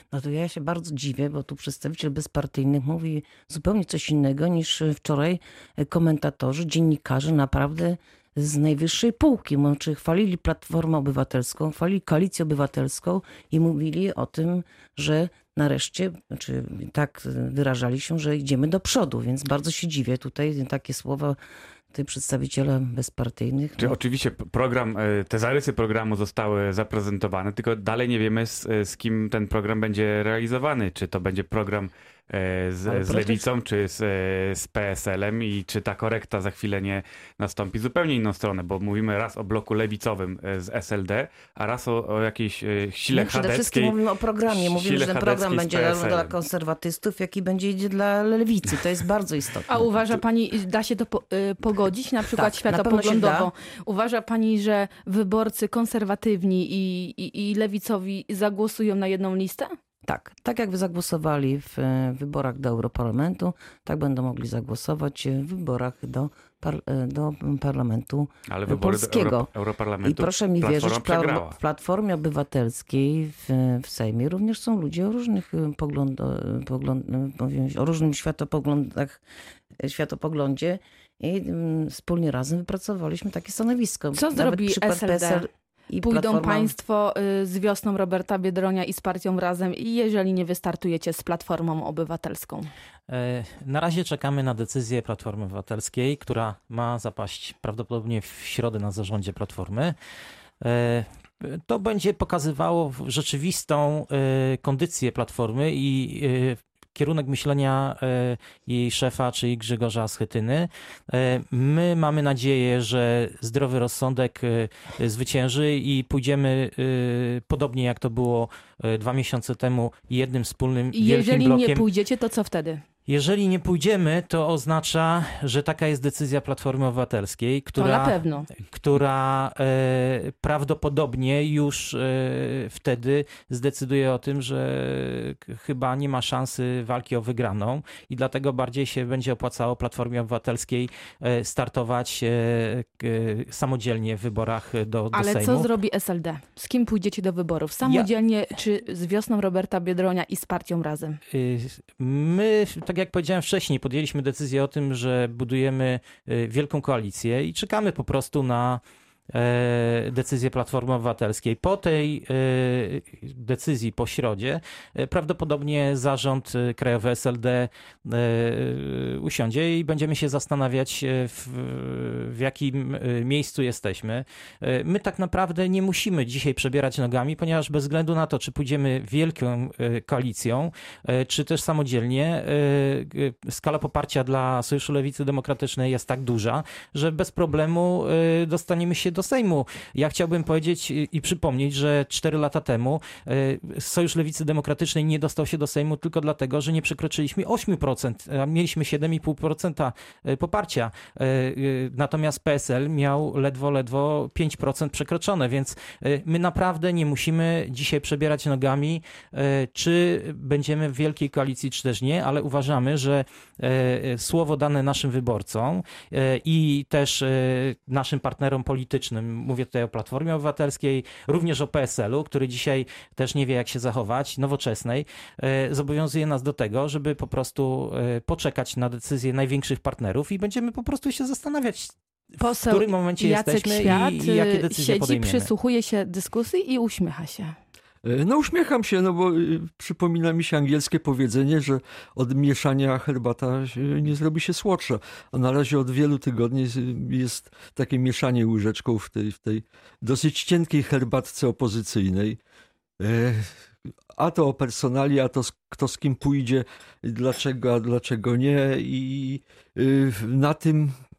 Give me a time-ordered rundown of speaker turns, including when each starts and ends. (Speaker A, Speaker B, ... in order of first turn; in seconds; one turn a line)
Speaker A: 0.1-21.4
Speaker A: 21.9-24.0
Speaker B: 23.8-46.3
Speaker A: 32.9-33.5
Speaker A: 43.1-49.9
Speaker C: 49.7-59.7
Speaker A: 52.3-53.5
Speaker A: 60.0-69.5
Speaker B: 68.5-71.6
Speaker A: 70.0-79.2
Speaker A: 79.8-86.8
Speaker C: 84.2-85.5
Speaker C: 86.0-92.7
Speaker D: 93.1-100.0
Speaker D: 100.6-121.8
Speaker C: 120.9-122.8
Speaker D: 123.1-145.7
Speaker C: 127.8-128.5
Speaker C: 145.1-151.2
Speaker D: 151.3-235.5
Speaker C: 232.4-237.6
Speaker E: 238.0-252.4
Speaker E: 253.0-253.5
Speaker E: 254.1-260.9